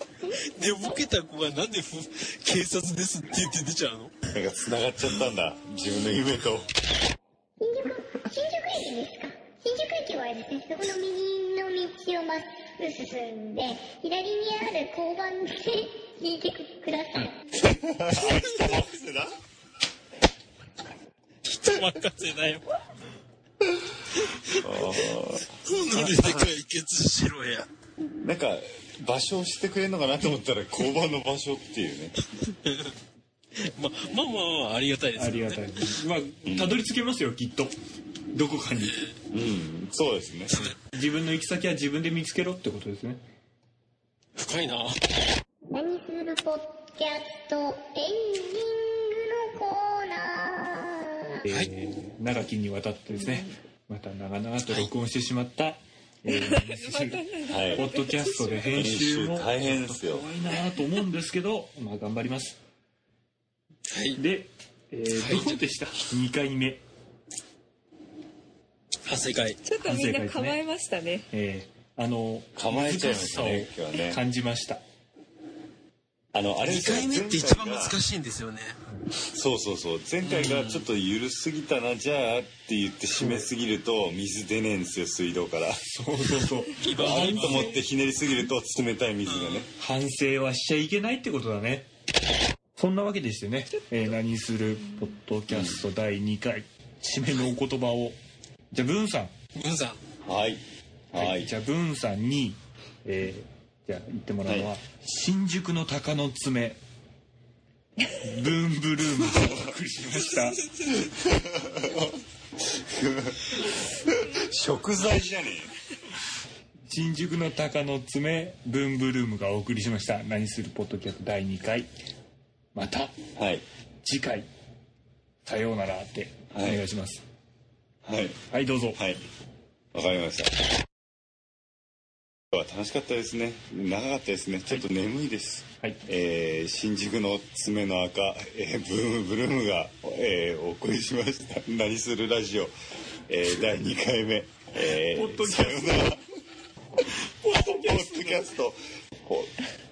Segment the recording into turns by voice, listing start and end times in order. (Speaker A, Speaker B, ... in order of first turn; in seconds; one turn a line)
Speaker A: 0.2-4.1
Speaker B: 0.6-0.9
Speaker C: 4.3-6.7
Speaker B: 7.6-17.4
Speaker C: 17.6-19.3
Speaker A: 18.2-18.8
Speaker A: 21.4-22.6
Speaker A: 24.2-25.0
Speaker C: 24.6-25.5
Speaker A: 25.5-27.7
Speaker C: 28.2-32.1
Speaker A: 32.4-32.9
Speaker A: 33.5-35.9
Speaker D: 35.1-37.7
Speaker C: 36.5-36.8
Speaker D: 38.3-39.0
Speaker C: 39.3-40.6
Speaker A: 40.5-40.8
Speaker D: 40.9-43.2
Speaker A: 44.4-45.0
Speaker B: 45.7-51.5
Speaker D: 51.4-62.6
Speaker B: 56.8-58.1
Speaker C: 57.5-57.9
Speaker E: 57.8-58.7
Speaker C: 58.7-60.3
Speaker A: 63.9-64.2
Speaker D: 64.2-66.8
Speaker A: 65.1-65.5
Speaker A: 69.0-69.6
Speaker E: 69.6-71.2
Speaker D: 69.8-70.6
Speaker D: 71.3-72.5
Speaker C: 72.5-74.2
Speaker A: 72.7-73.7
Speaker D: 73.4-74.8
Speaker C: 76.3-78.0
Speaker A: 76.6-78.8
Speaker C: 79.3-85.8
Speaker A: 80.2-80.9
Speaker D: 83.2-83.5
Speaker D: 85.8-87.8
Speaker A: 86.8-87.7
Speaker C: 86.8-89.7
Speaker A: 89.2-89.7
Speaker D: 89.8-91.9
Speaker D: 92.8-98.2
Speaker C: 95.5-95.8
Speaker D: 98.7-99.3
Speaker A: 99.5-100.0
Speaker C: 100.2-101.5
Speaker D: 101.1-106.8
Speaker C: 104.5-104.8
Speaker D: 108.2-110.6
Speaker C: 111.1-112.2
Speaker C: 112.7-115.7
Speaker D: 116.9-121.9
Speaker D: 122.7-123.2
Speaker C: 123.4-123.6
Speaker D: 124.0-124.5
Speaker D: 125.4-127.2
Speaker C: 126.5-126.8
Speaker C: 128.0-128.4
Speaker D: 128.5-129.0
Speaker C: 128.9-129.2
Speaker C: 129.9-130.5
Speaker C: 132.5-142.7
Speaker C: 143.3-146.3
Speaker D: 145.1-146.2
Speaker D: 147.4-148.4
Speaker C: 147.5-149.5